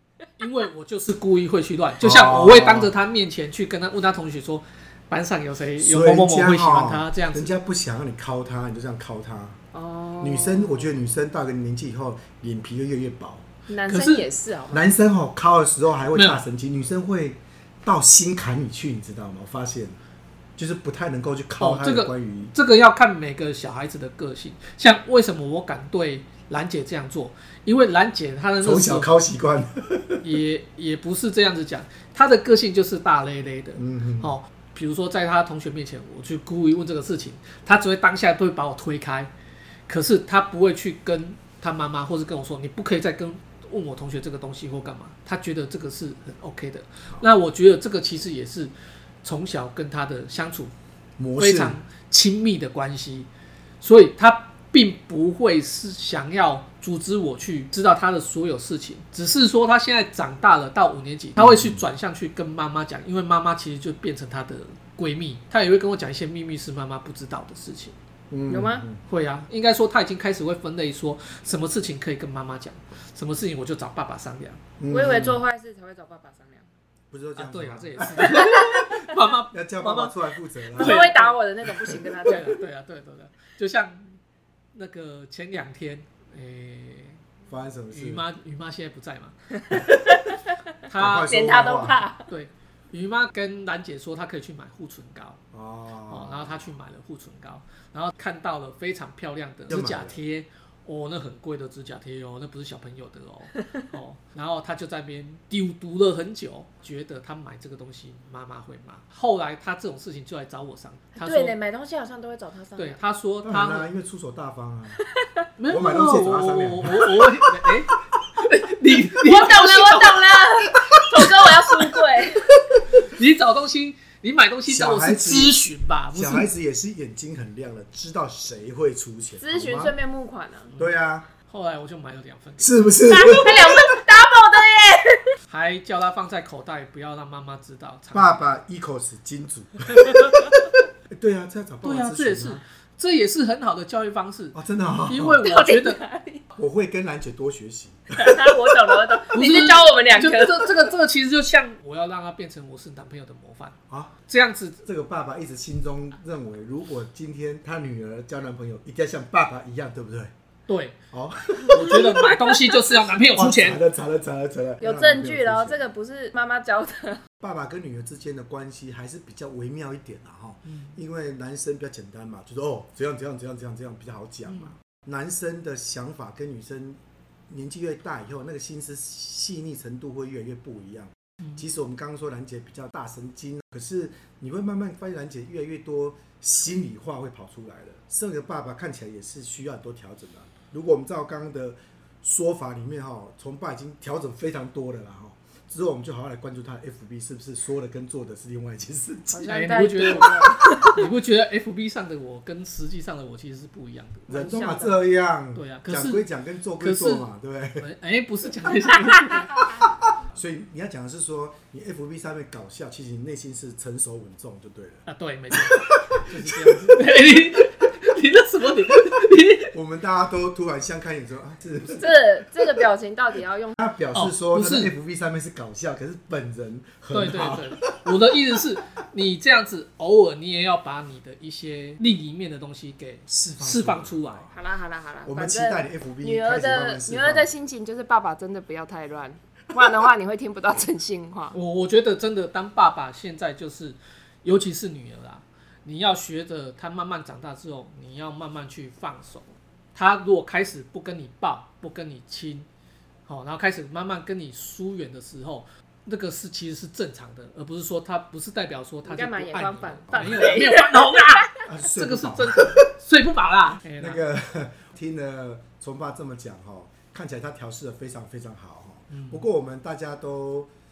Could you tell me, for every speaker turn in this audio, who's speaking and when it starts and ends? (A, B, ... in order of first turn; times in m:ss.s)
0:00.4-0:07.5 A
0:02.0-0:02.9 B
0:05.8-0:09.6 B
0:09.7-0:10.9 C
0:10.2-0:13.4 B
0:13.7-0:14.9 C
0:13.9-0:14.2 A
0:14.7-0:20.0 B
0:16.1-0:16.4 A
0:20.6-0:22.5 B
0:21.6-0:29.1 A
0:28.6-0:30.3 B
0:30.2-0:39.3 A
0:33.8-0:34.4 B
0:39.9-0:50.7 A
0:51.2-0:51.8 B
0:51.3-0:53.3 A
0:53.8-1:08.0 A
1:01.4-1:01.8 B
1:08.3-1:09.0 B
1:08.5-1:08.9 C
1:09.1-1:14.6 A
1:14.8-1:15.4 B
1:14.9-1:16.7 C
1:17.1-1:18.9 B
1:17.4-1:20.2 A
1:18.3-1:18.8 C
1:19.5-1:21.1 B
1:20.7-1:21.4 A
1:20.7-1:22.6 C
1:22.2-1:24.2 A
1:24.7-1:27.2 A
1:27.5-1:28.3 B
1:27.9-1:29.8 A
1:29.7-1:30.4 C
1:30.8-1:31.6 A
1:31.0-1:32.0 B
1:31.1-1:32.3 C
1:32.3-1:35.4 A
1:35.5-1:36.7 B
1:36.1-1:51.6 A
1:39.7-1:40.2 B
1:51.2-1:53.0 C
1:52.8-1:53.9 A
1:53.4-1:55.0 B
1:55.0-1:55.3 C
1:55.6-2:01.5 A
1:55.7-1:57.3 B
1:59.2-2:02.6 C
2:02.9-2:06.5 A
2:04.7-2:05.6 B
2:06.1-2:09.9 B
2:09.4-2:10.7 C
2:10.8-2:11.3 B
2:11.5-2:13.3 A
2:12.6-2:13.9 B
2:13.0-2:15.3 C
2:15.5-2:18.5 A
2:18.1-2:20.4 B
2:20.0-2:20.5 A
2:21.1-2:22.6 B
2:21.8-2:24.6 A
2:24.5-2:25.4 B
2:25.1-2:26.0 A
2:25.4-2:26.4 C
2:26.6-2:28.7 B
2:28.1-2:30.9 C
2:29.3-2:34.8 A
2:33.9-2:34.1 B
2:34.8-2:40.3 B
2:40.7-2:41.0 A
2:41.1-2:42.3 B
2:41.7-2:43.8 A
2:43.2-2:45.8 B
2:44.8-2:47.2 C
2:47.4-2:57.0 B
2:50.7-2:51.0 A
2:57.5-3:20.1 B
3:19.3-3:21.1 C
3:19.5-3:24.4 A
3:24.3-3:27.9 B
3:24.3-3:25.0 C
3:25.5-3:26.3 A
3:26.8-3:29.6 A
3:30.3-3:37.0 B
3:35.1-3:39.7 A
3:39.7-3:42.1 B
3:42.0-3:43.8 C
3:43.8-3:48.2 B
3:44.1-3:44.9 A
3:47.1-3:54.5 A
3:53.6-3:54.4 B
3:54.5-4:01.6 C
3:55.3-3:57.5 B
4:01.5-4:12.7 A
4:13.3-4:24.2 A
4:19.0-4:21.4 C
4:20.2-4:20.6 B
4:21.6-4:22.9 B
4:24.0-4:30.7 B
4:29.1-4:29.4 A